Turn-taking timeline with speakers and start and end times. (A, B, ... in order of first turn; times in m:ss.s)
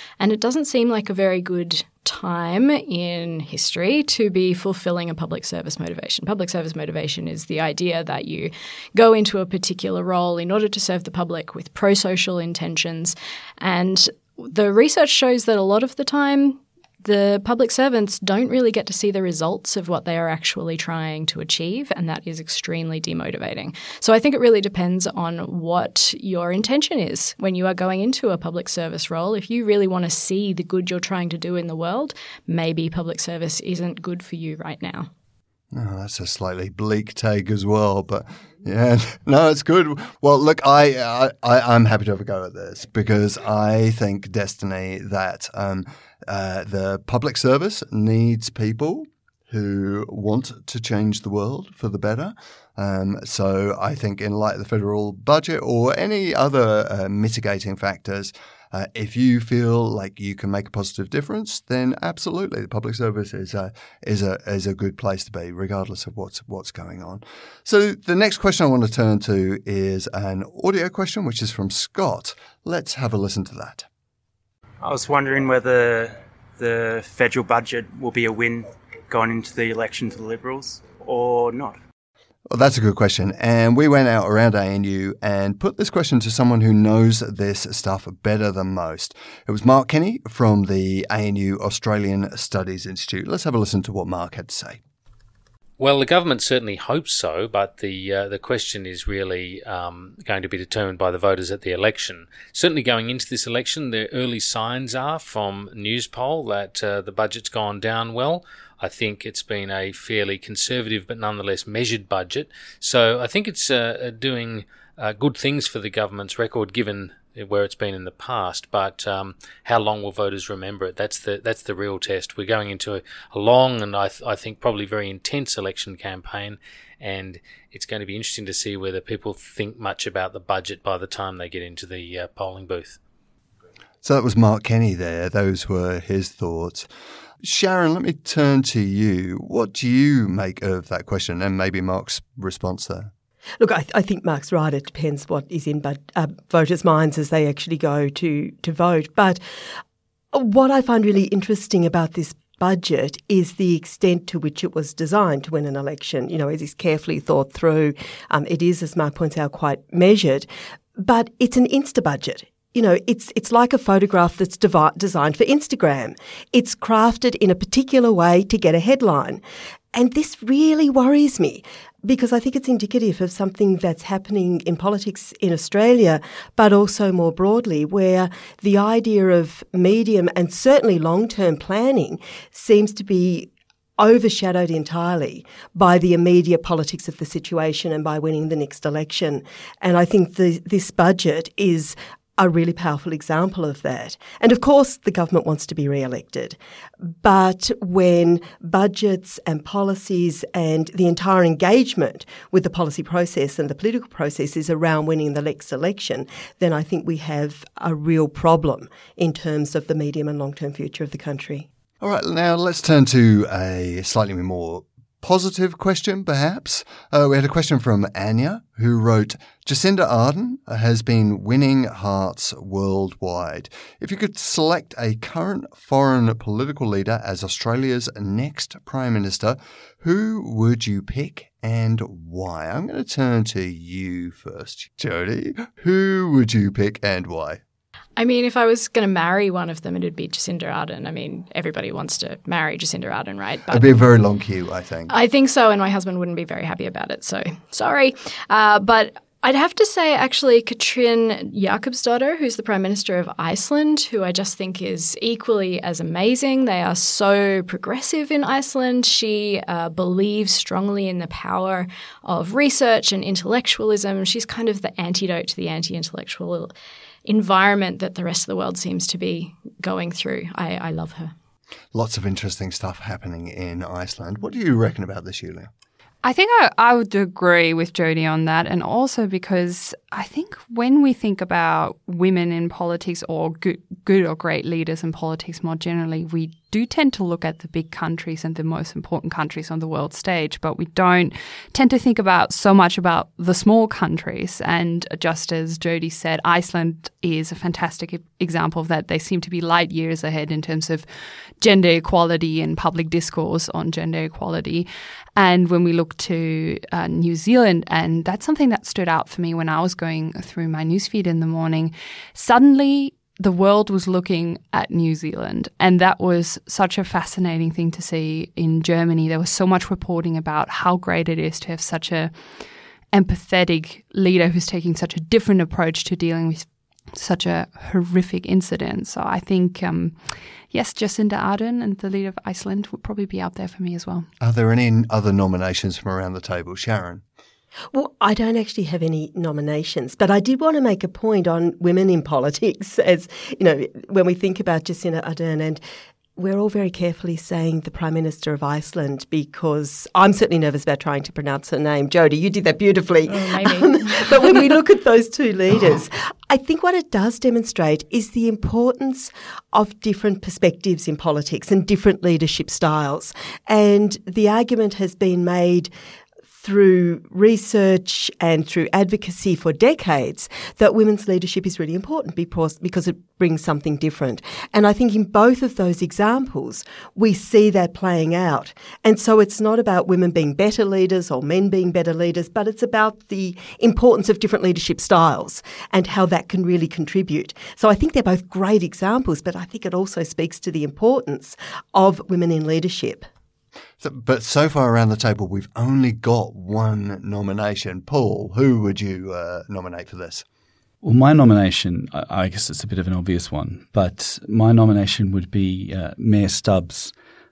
0:00.2-0:35.1 A
0:35.7-1:13.9 B
1:14.8-1:21.8 C
1:22.5-1:34.8 B
1:35.8-2:13.0 D
2:14.0-2:16.9 B
2:17.4-2:23.1 B
2:23.6-2:29.4 E
2:30.3-2:49.4 E
2:49.9-3:16.6 E
3:17.1-3:31.7 E
3:32.0-3:57.6 B
3:58.2-4:04.0 A
4:03.7-4:05.1 B
4:05.1-4:26.7 A
4:27.2-4:31.3 A
4:31.9-4:35.7 B
4:36.2-5:01.1 F
5:01.6-5:34.3 F
5:34.4-5:37.2 B
5:37.9-5:45.8 E
5:46.4-6:05.9 E
5:53.3-5:54.8 A
6:06.5-6:33.2 E
6:34.0-6:40.4 B
6:41.0-6:47.1 G